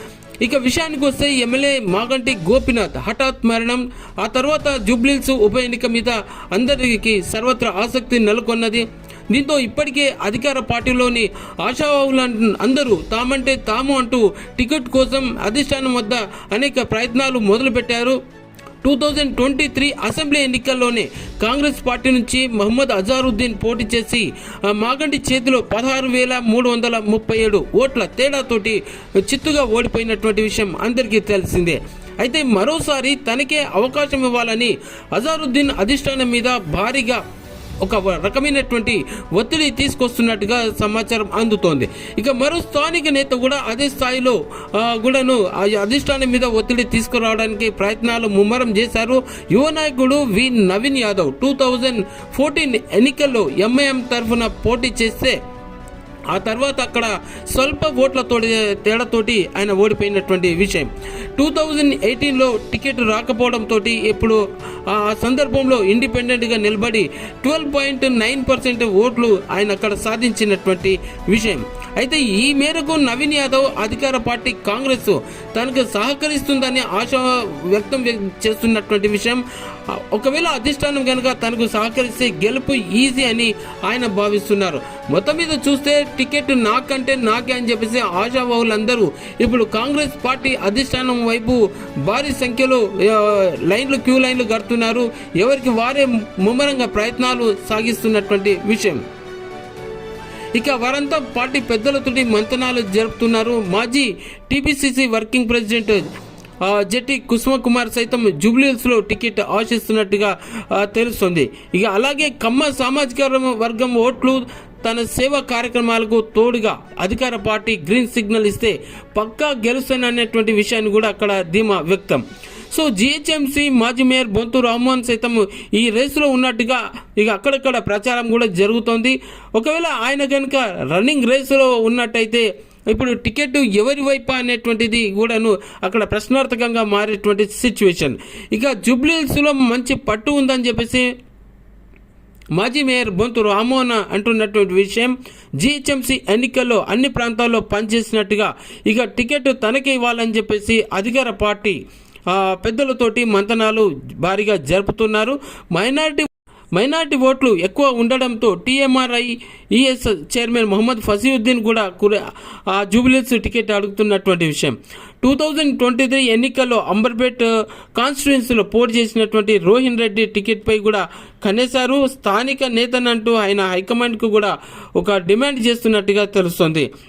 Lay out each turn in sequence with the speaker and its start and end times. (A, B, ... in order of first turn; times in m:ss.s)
0:00.4-0:18.2 A
0:18.8-0:37.2 A
0:37.8-0:55.4 A
0:56.3-1:39.0 A
1:40.5-1:46.0 A
1:46.6-2:21.1 A
2:22.6-2:56.9 A